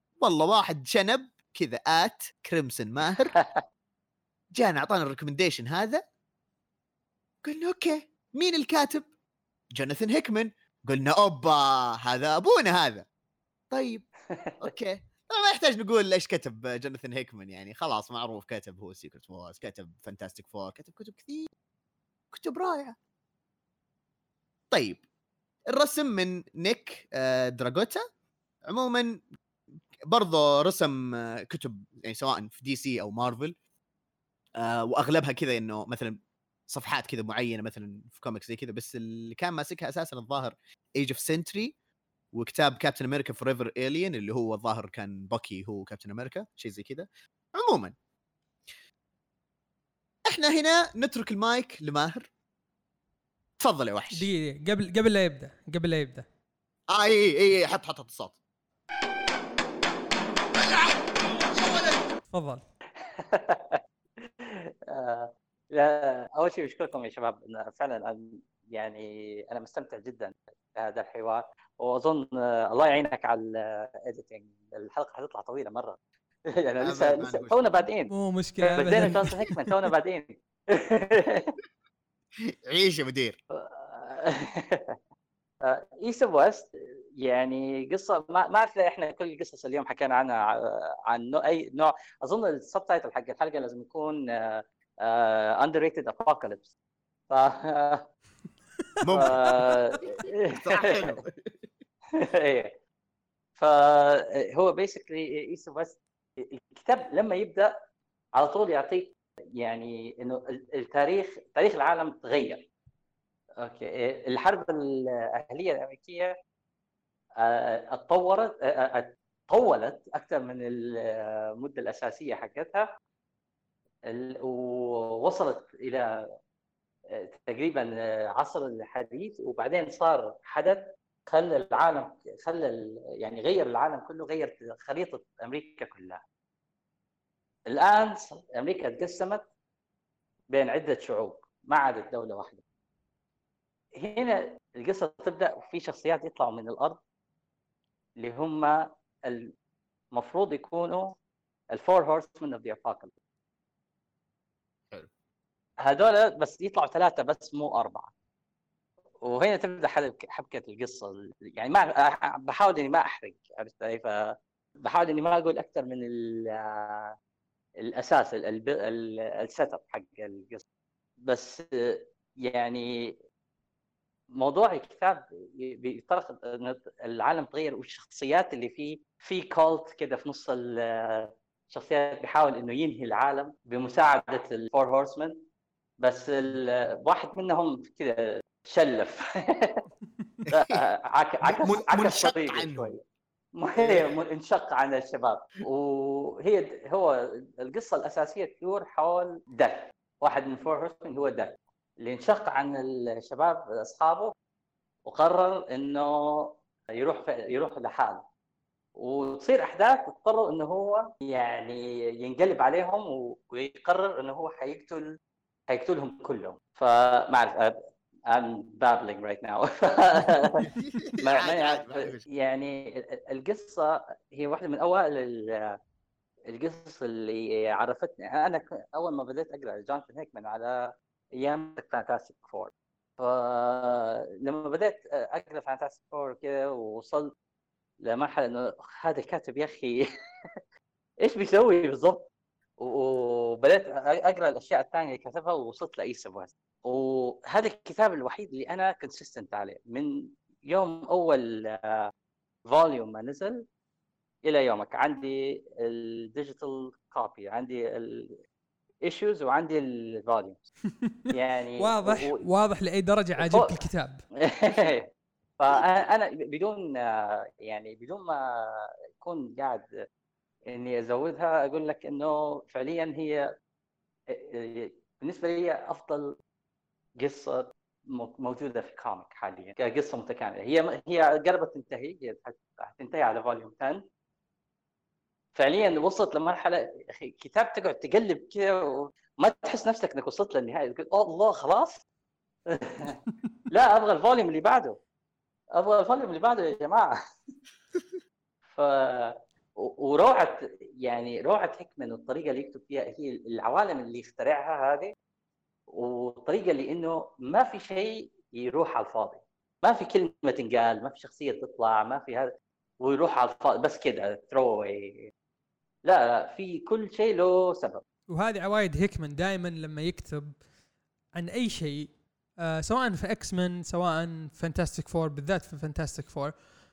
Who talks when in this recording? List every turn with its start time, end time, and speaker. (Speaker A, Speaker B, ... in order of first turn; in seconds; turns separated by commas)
Speaker A: 0.2-3.4, Speaker B: 3.3-3.6, Speaker A: 4.5-6.0, Speaker A: 7.4-9.1, Speaker A: 9.8-13.1, Speaker A: 13.7-14.1, Speaker B: 14.3-14.6, Speaker A: 14.6-21.5, Speaker A: 22.3-23.0, Speaker A: 24.7-25.0, Speaker A: 25.7-28.0, Speaker A: 28.7-29.2, Speaker A: 30.1-33.5, Speaker A: 34.6-41.8, Speaker A: 42.3-48.0, Speaker A: 50.3-52.3, Speaker A: 53.6-54.3, Speaker C: 54.1-56.3, Speaker A: 56.9-58.4, Speaker A: 61.5-62.0, Speaker C: 62.3-62.6, Speaker B: 63.0-76.0, Speaker B: 76.5-81.5, Speaker A: 76.8-77.8, Speaker C: 78.1-79.4, Speaker A: 82.4-83.4, Speaker B: 83.5-85.0, Speaker B: 85.6-96.7, Speaker B: 97.3-98.1, Speaker A: 99.0-99.8, Speaker B: 99.2-101.2, Speaker A: 100.5-101.5, Speaker B: 102.2-102.7, Speaker B: 103.6-107.7, Speaker B: 108.4-112.7, Speaker B: 113.6-116.3, Speaker B: 117.4-122.9, Speaker B: 124.1-126.3, Speaker B: 127.1-136.2, Speaker B: 137.7-139.5, Speaker B: 140.5-142.6, Speaker B: 144.0-147.0, Speaker B: 148.2-149.5, Speaker B: 150.1-151.2, Speaker B: 151.7-153.1, Speaker B: 155.8-158.1, Speaker B: 159.2-167.1, Speaker B: 167.8-170.6, Speaker B: 171.3-173.2, Speaker B: 174.4-185.4, Speaker B: 186.0-189.8, Speaker A: 190.5-190.8, Speaker B: 190.5-193.0, Speaker A: 191.4-192.9, Speaker B: 193.6-204.3, Speaker A: 193.8-194.2, Speaker B: 205.1-208.3, Speaker B: 209.0-215.1, Speaker B: 215.7-225.8, Speaker A: 220.6-222.2, Speaker B: 226.5-237.3, Speaker B: 238.0-240.1, Speaker B: 241.2-252.0, Speaker B: 252.7-253.7, Speaker B: 254.4-258.4, Speaker B: 259.0-260.6, Speaker C: 260.9-264.2, Speaker B: 261.3-262.4, Speaker B: 263.4-263.7, Speaker B: 264.4-269.9, Speaker B: 270.7-273.5, Speaker B: 274.3-276.4, Speaker B: 277.2-284.0, Speaker B: 285.6-292.0, Speaker B: 292.7-295.0, Speaker B: 295.8-297.1, Speaker B: 298.7-305.1, Speaker B: 305.9-315.3, Speaker B: 316.1-318.0, Speaker C: 318.3-320.6, Speaker C: 321.4-326.5